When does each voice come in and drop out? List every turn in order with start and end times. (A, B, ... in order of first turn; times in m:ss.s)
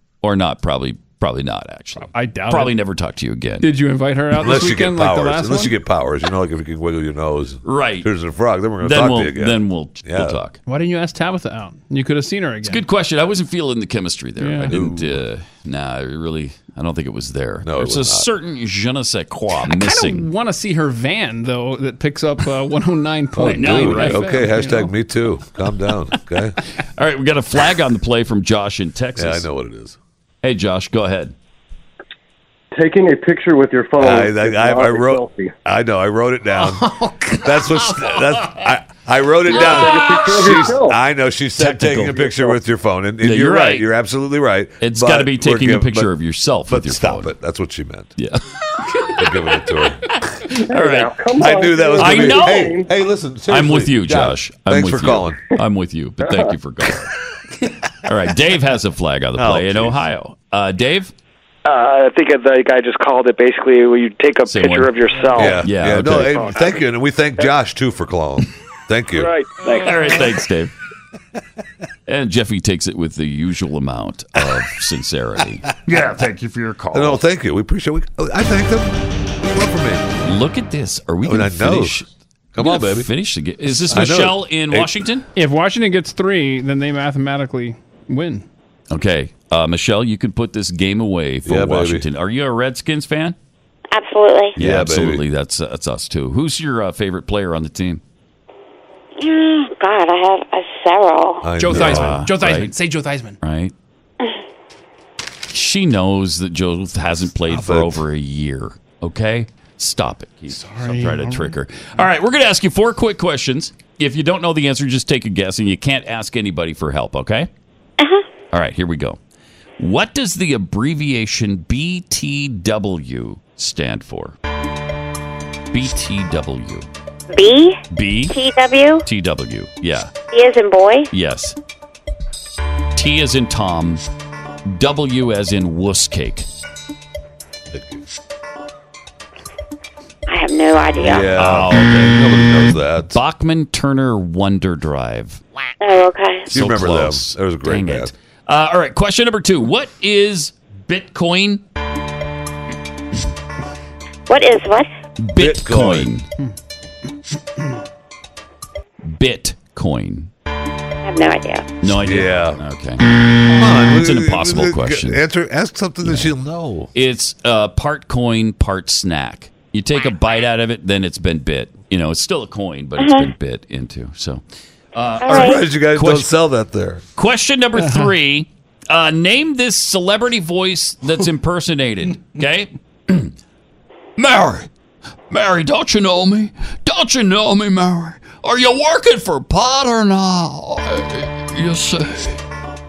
0:00.2-0:03.7 A
0:02.1-0:02.7 B
0:03.6-0:05.7 B
0:04.4-0:10.4 C
0:07.6-0:08.1 A
0:08.8-0:10.6 A
0:10.7-0:12.8 B
0:12.6-0:20.3 A
0:14.4-0:14.7 B
0:14.7-0:15.2 C
0:17.6-0:18.3 C
0:19.8-0:24.9 B
0:23.3-0:26.6 C
0:23.5-0:24.3 A
0:27.0-0:29.4 A
0:29.2-0:30.0 C
0:30.4-0:31.3 A
0:32.7-0:35.5 D
0:34.0-0:36.8 C
0:37.0-0:37.4 B
0:37.4-0:46.1 C
0:39.5-0:41.0 D
0:41.6-0:42.2 A
0:42.2-0:42.5 D
0:43.2-0:43.9 A
0:44.8-0:47.3 A
0:46.7-0:48.1 C
0:49.2-0:50.0 C
0:50.5-0:52.9 D
0:50.7-0:51.1 A
0:51.4-0:55.4 C
0:52.0-0:52.7 A
0:53.5-0:57.1 A
0:58.0-1:01.1 A
0:59.4-1:00.0 C
1:01.7-1:05.4 E
1:04.5-1:06.5 A
1:05.3-1:09.3 C
1:09.7-1:10.7 A
1:12.1-1:17.2 A
1:16.9-1:20.0 C
1:20.2-1:22.1 A
1:21.2-1:22.0 C
1:22.5-1:23.1 C
1:22.6-1:25.2 A
1:23.8-1:24.9 C
1:25.3-1:28.4 B
1:28.9-1:33.4 A
1:31.4-1:32.0 C
1:33.9-1:34.5 F
1:34.6-1:35.2 C
1:34.6-1:38.0 A
1:39.2-1:41.5 F
1:41.4-1:42.3 C
1:41.6-1:43.4 B
1:41.7-1:42.7 A
1:43.4-1:43.7 A
1:45.5-1:57.5 A
1:47.4-1:48.0 C
1:50.5-1:51.5 B
1:58.0-1:58.3 F
1:58.5-1:59.2 A
1:59.8-2:04.4 A
2:05.7-2:06.9 A
2:07.3-2:09.0 F
2:07.9-2:08.4 A
2:09.0-2:10.1 A
2:10.3-2:11.1 F
2:11.1-2:11.6 A
2:12.9-2:14.0 A
2:14.6-2:16.5 A
2:17.7-2:18.0 C
2:20.3-2:21.4 F
2:21.0-2:23.2 C
2:21.3-2:22.2 A
2:23.1-2:25.4 A
2:25.8-2:26.5 F
2:26.5-2:28.1 C
2:26.5-2:31.6 A
2:34.3-2:34.9 F
2:35.2-2:36.3 A
2:35.4-2:36.1 C
2:39.0-2:40.3 A
2:41.0-2:41.7 F
2:41.8-2:43.0 A
2:42.0-2:42.6 C
2:43.5-2:46.9 C
2:43.8-2:45.2 A
2:46.0-2:46.3 A
2:46.9-2:54.4 A
2:53.0-2:53.3 F
2:54.9-2:56.3 A
2:55.2-2:55.6 F
2:55.2-2:57.0 C
2:57.2-3:03.3 A
2:57.8-2:58.1 B
3:04.2-3:04.7 A
3:05.3-3:12.4 A